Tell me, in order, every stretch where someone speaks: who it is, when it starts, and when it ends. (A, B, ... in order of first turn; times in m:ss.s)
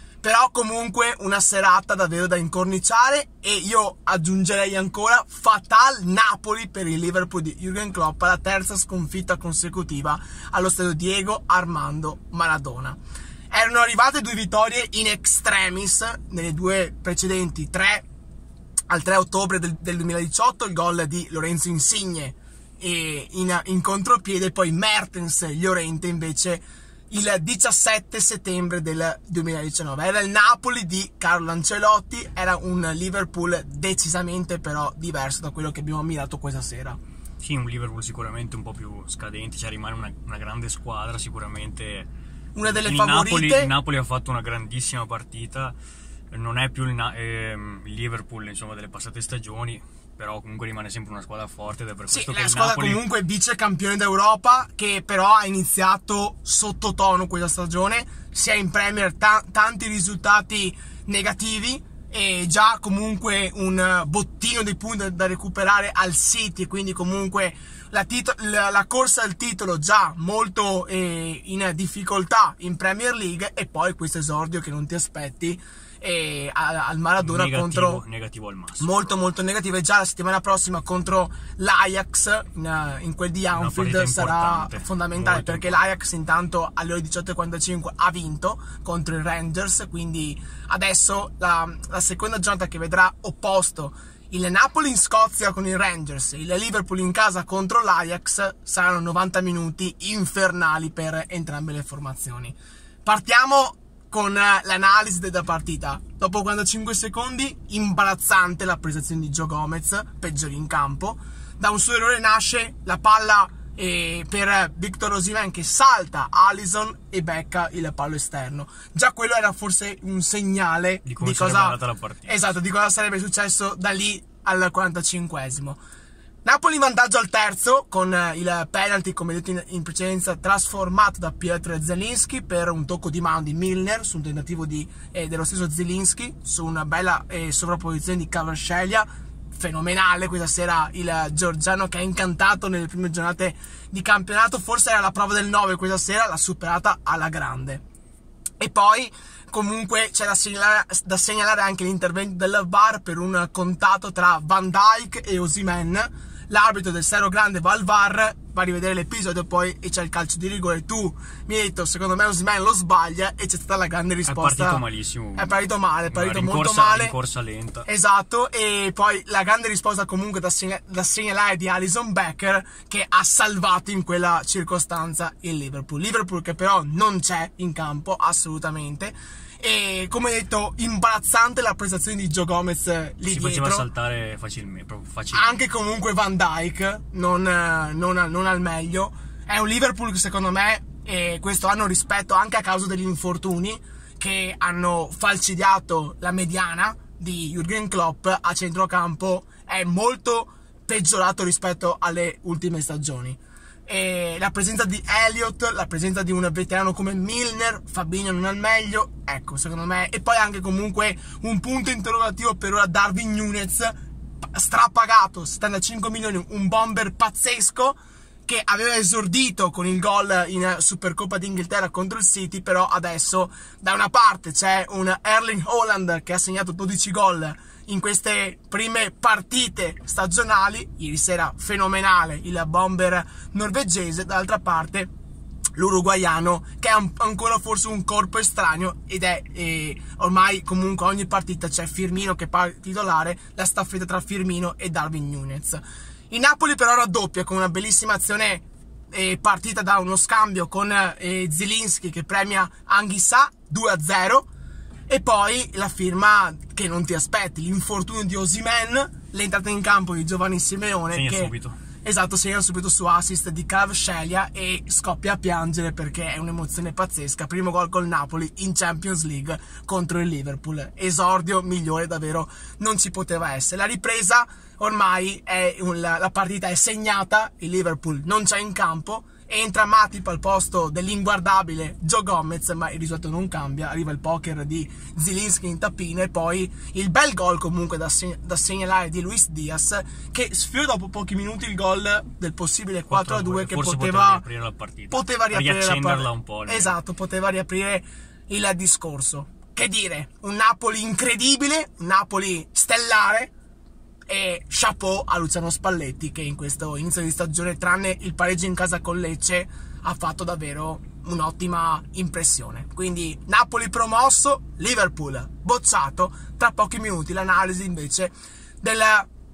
0:00.2-0:13.0 A
0:13.5-0:18.0 A
0:18.9-0:37.0 A
0:37.4-0:42.1 B
0:42.6-0:43.7 A
0:42.6-0:45.7 B
0:46.3-0:53.0 B
0:52.1-1:18.0 A
1:17.2-1:18.8 B
1:18.8-2:05.8 A
1:23.5-1:25.8 B
2:01.0-2:02.5 B
2:06.4-2:27.8 A
2:28.6-2:44.8 A
2:44.2-2:47.9 B
2:45.4-2:47.2 A
2:47.8-3:03.8 A
3:03.3-3:05.6 B
3:05.3-3:33.9 A
3:34.5-3:55.1 A
3:55.8-4:14.5 A
4:15.1-4:21.5 A
4:21.1-4:21.8 B
4:22.0-4:54.4 A
4:53.1-4:57.0 B
4:55.1-5:03.5 A
5:04.3-5:19.3 A